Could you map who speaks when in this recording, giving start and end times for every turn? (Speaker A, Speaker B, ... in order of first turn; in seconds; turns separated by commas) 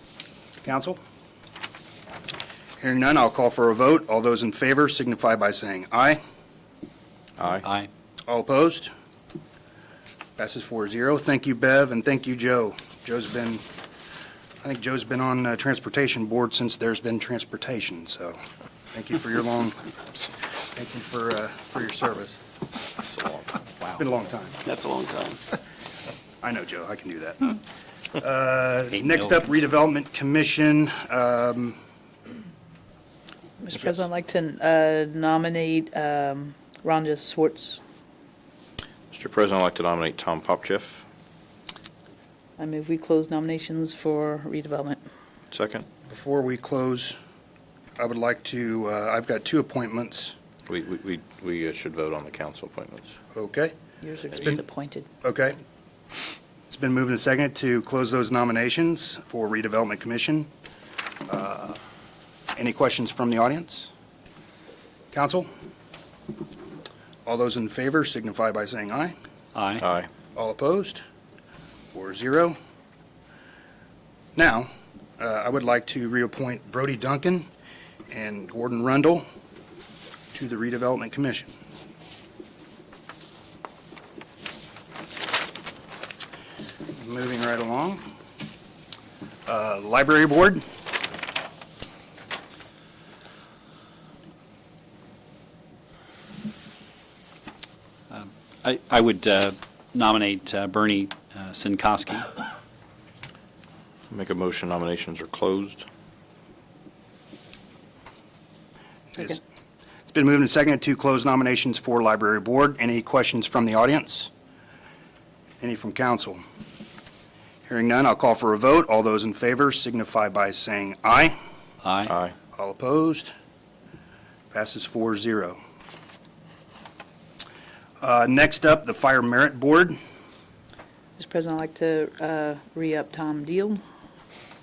Speaker A: 0.6-1.0, Speaker A: 2.8-6.2, Speaker B: 7.4-7.7, Speaker A: 8.3-8.9, Speaker A: 10.4-13.6, Speaker A: 14.6-18.4, Speaker A: 18.9-19.9, Speaker A: 20.7-22.4, Speaker B: 23.1-23.7, Speaker A: 23.9-24.7, Speaker A: 26.4-27.5, Speaker A: 28.2-31.8, Speaker C: 28.9-29.4, Speaker D: 33.6-37.8, Speaker B: 39.1-41.0, Speaker D: 42.6-45.0, Speaker B: 45.5-45.9, Speaker A: 46.1-47.2, Speaker A: 48.0-50.4, Speaker B: 50.7-53.1, Speaker A: 53.3-53.7, Speaker D: 54.0-55.1, Speaker A: 55.2-55.6, Speaker A: 56.7-60.5, Speaker A: 61.3-61.8, Speaker A: 62.6-63.9, Speaker A: 65.1-65.5, Speaker A: 67.2-69.2, Speaker C: 69.5-69.8, Speaker B: 69.8-70.1, Speaker A: 70.3-71.0, Speaker A: 71.9-72.6, Speaker A: 74.4-77.5, Speaker A: 78.1-79.3, Speaker A: 80.3-81.5, Speaker A: 86.9-88.1, Speaker A: 89.5-90.6, Speaker C: 98.1-102.3, Speaker B: 104.1-105.9, Speaker A: 109.2-109.4, Speaker A: 110.1-114.3, Speaker A: 115.6-116.4, Speaker A: 117.7-121.4, Speaker C: 121.8-122.1, Speaker B: 122.1-122.3, Speaker A: 122.5-123.3, Speaker A: 124.5-125.6, Speaker A: 128.0-130.0, Speaker D: 131.2-133.8